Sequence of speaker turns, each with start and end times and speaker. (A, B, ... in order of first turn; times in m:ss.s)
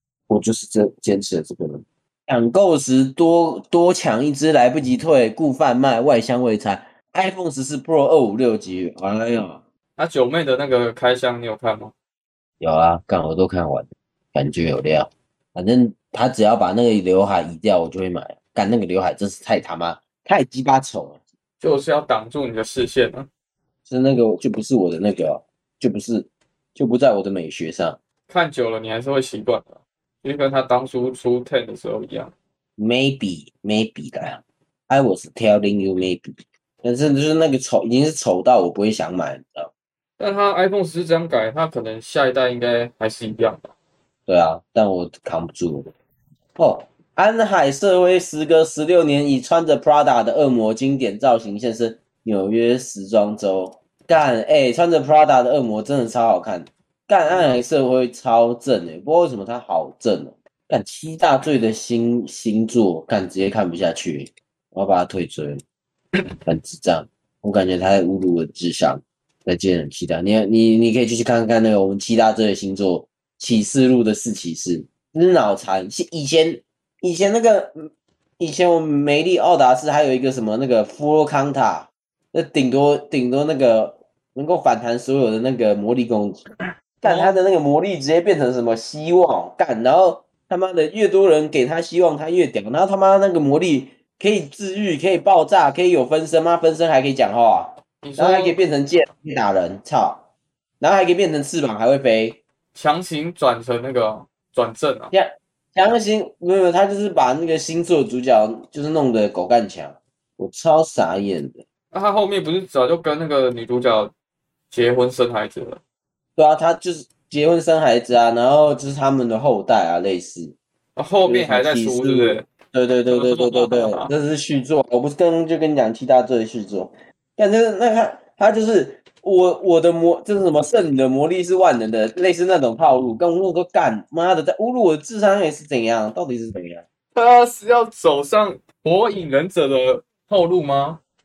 0:00.3-0:09.6 A
0:10.0-0:11.9 B
0:12.6-0:21.2 A
0:21.6-0:23.3 B
0:23.9-0:28.0 A
0:28.3-0:32.3 B
0:32.8-0:39.7 A
0:40.2-0:43.7 B
0:44.3-0:45.9 A
0:46.6-1:05.6 A
0:57.3-0:57.6 B
1:06.4-1:26.4 A
1:27.0-1:40.2 A
1:27.0-1:27.4 B
1:38.0-1:38.6 B
1:40.8-1:42.4 A
1:42.7-1:45.1 B
1:45.1-1:51.6 A
1:51.9-1:54.1 B
1:54.7-1:55.8 B
1:56.4-2:00.6 A
2:01.0-2:02.5 B
2:01.3-2:16.8 A
2:03.1-2:04.1 B
2:17.2-2:21.0 B